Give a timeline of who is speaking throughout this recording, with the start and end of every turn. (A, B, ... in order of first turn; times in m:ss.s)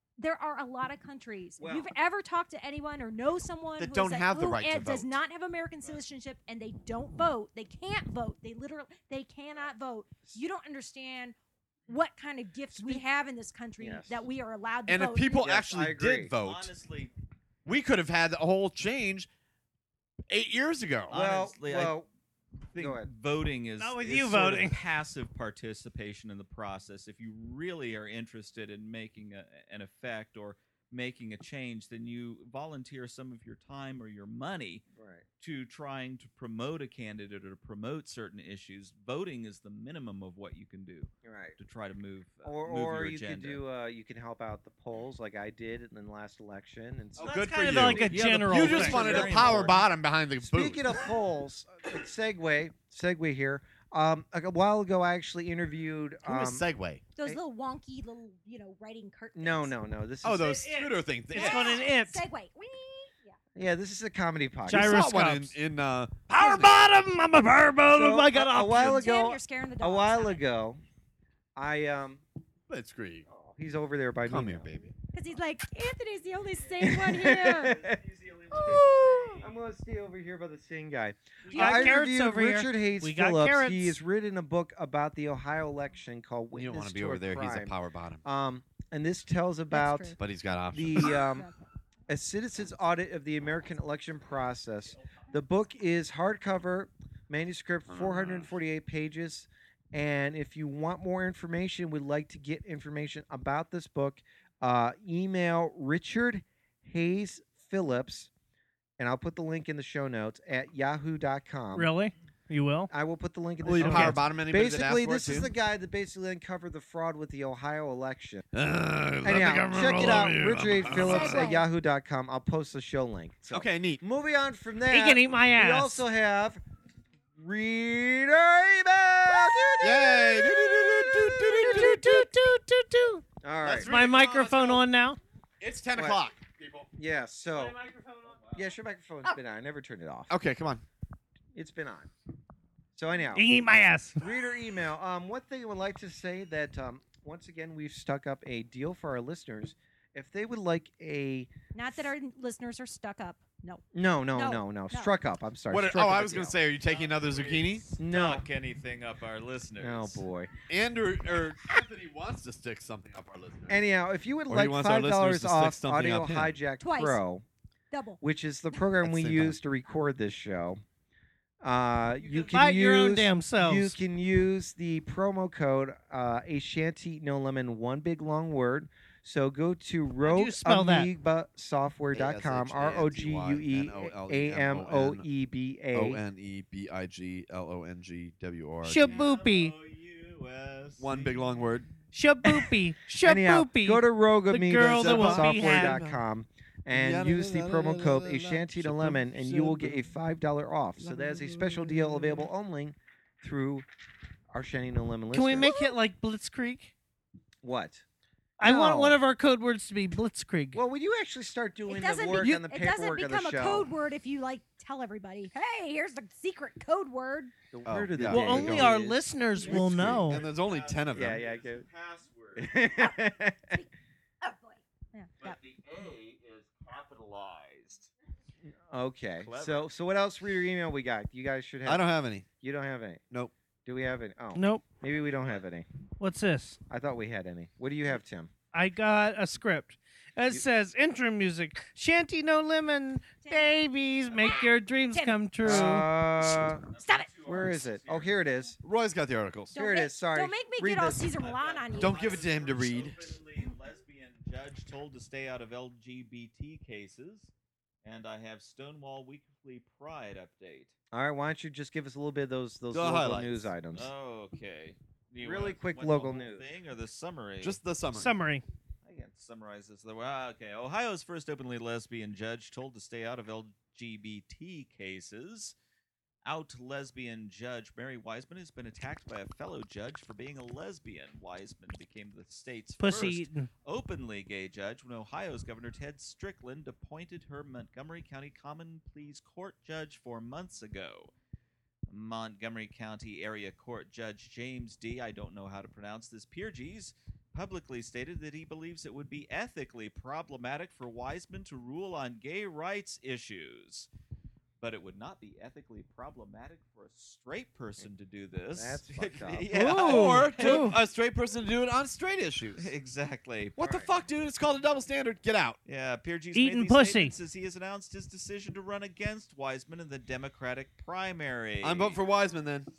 0:00.2-0:11.4 A
0:01.6-0:01.9 B
0:03.8-0:05.2 C
0:11.9-0:15.4 A
0:12.7-0:13.0 B
0:13.8-0:14.1 B
0:14.9-0:16.7 C
0:15.3-0:16.3 B
0:16.4-0:17.1 D
0:17.6-0:19.3 C
0:20.3-0:21.1 C
0:21.1-0:22.0 D
0:21.1-0:22.1 B
0:22.7-0:34.8 D
0:22.8-0:23.1 B
0:23.8-0:24.8 E
0:34.9-0:35.2 B
0:35.4-0:43.6 D
0:41.2-0:41.6 B
0:42.4-0:48.0 B
0:47.2-0:50.9 C
0:47.2-0:49.8 D
0:47.2-0:49.3 E
0:48.7-0:49.8 B
0:50.4-0:56.6 B
0:56.2-0:57.0 C
0:57.2-0:59.7 A
0:59.4-1:00.7 B
1:00.2-1:01.7 C
1:00.5-1:02.2 E
1:01.3-1:03.4 A
1:03.6-1:05.1 B
1:04.7-1:05.5 E
1:04.7-1:06.9 C
1:06.3-1:09.0 E
1:07.8-1:10.8 B
1:08.7-1:10.4 A
1:11.6-1:12.2 B
1:12.7-1:13.2 C
1:13.2-1:14.7 B
1:14.2-1:14.9 C
1:15.1-1:17.8 A
1:16.8-1:18.0 B
1:17.6-1:19.6 D
1:18.6-1:18.8 B
1:18.7-1:19.2 E
1:19.4-1:30.2 B
1:21.5-1:24.0 E
1:21.5-1:21.9 A
1:26.5-1:28.2 C
1:29.7-1:30.2 A
1:30.2-1:31.2 C
1:30.7-1:31.5 B
1:31.1-1:31.6 A
1:32.1-1:48.3 B
1:37.9-1:38.5 C
1:49.0-1:51.9 B
1:51.7-1:52.9 E
1:52.9-1:58.4 B
1:53.6-1:55.5 C
1:53.8-1:54.2 E
1:58.5-2:01.5 C
1:59.2-2:06.6 B
2:00.9-2:01.7 A
2:03.5-2:04.0 C
2:04.9-2:06.0 E
2:07.4-2:11.9 B
2:09.8-2:12.3 C
2:11.4-2:13.2 E
2:13.4-2:13.9 B
2:13.6-2:14.8 C
2:13.8-2:15.2 E
2:15.6-2:16.9 C
2:15.9-2:16.2 B
2:17.0-2:17.8 B
2:17.5-2:18.5 E
2:18.2-2:18.6 D
2:18.5-2:20.3 B
2:20.3-2:20.8 C
2:21.5-2:22.1 B
2:23.0-2:23.5 B
2:23.3-2:24.2 E
2:24.2-2:31.5 B
2:31.7-2:35.1 A
2:33.9-2:36.6 B
2:35.7-2:37.8 C
2:36.8-2:40.2 D
2:38.0-2:38.4 B
2:39.8-2:40.5 B
2:40.7-2:43.8 C
2:43.7-2:47.4 B
2:44.5-2:46.6 C
2:46.8-2:47.2 A
2:47.9-2:48.2 A
2:48.2-2:50.8 B
2:49.0-2:49.6 C
2:51.6-3:06.2 B
2:52.2-2:52.6 D
2:52.5-2:54.0 E
3:00.2-3:01.1 E
3:02.1-3:05.3 C
3:05.9-3:09.2 C
3:08.8-3:09.7 E
3:09.0-3:11.4 D
3:11.0-3:11.9 C
3:12.1-3:16.0 E
3:13.2-3:23.8 B
3:14.9-3:16.2 C
3:16.9-3:20.1 C
3:21.0-3:22.5 C
3:24.5-3:25.7 B
3:25.3-3:26.9 E
3:25.6-3:25.9 A
3:27.6-3:28.0 B
3:28.6-3:29.2 B
3:28.6-3:30.8 E
3:30.7-3:33.9 B
3:31.9-3:37.5 A
3:32.4-3:32.6 E
3:37.7-3:40.3 B
3:37.8-3:38.9 C
3:38.2-3:40.4 E
3:39.6-3:41.4 C
3:40.3-3:42.7 D
3:41.1-3:41.9 B
3:42.6-3:43.7 B
3:44.4-3:45.6 A
3:45.4-3:48.1 D
3:48.6-3:52.1 B
3:49.4-3:49.9 D
3:51.8-3:52.4 C
3:52.6-3:53.2 B
3:53.8-3:55.9 B
3:54.5-3:54.8 E
3:56.2-3:56.8 E
3:56.9-3:58.5 B
3:58.7-4:06.1 E
4:03.4-4:05.4 A
4:04.3-4:04.6 D
4:05.6-4:06.8 B
4:06.6-4:08.4 D
4:07.0-4:07.3 A
4:07.4-4:08.8 B
4:08.8-4:09.7 C
4:09.7-4:12.3 A
4:09.7-4:11.3 B
4:11.4-4:17.5 D
4:12.0-4:13.2 C
4:18.0-4:20.9 D
4:21.1-4:24.1 B
4:22.9-4:23.7 C
4:23.9-4:27.8 D
4:25.4-4:26.6 B
4:27.6-4:28.3 C
4:28.1-4:28.6 E
4:29.0-4:35.8 D
4:36.4-4:51.3 D
4:43.0-4:43.7 E
4:52.1-5:04.1 D
5:04.8-5:10.9 D
5:08.7-5:10.0 B
5:09.7-5:11.0 E
5:09.9-5:12.9 C
5:12.8-5:13.9 D
5:13.8-5:15.8 C
5:13.8-5:14.1 B
5:15.8-5:22.2 D
5:16.5-5:17.3 E
5:21.8-5:22.9 C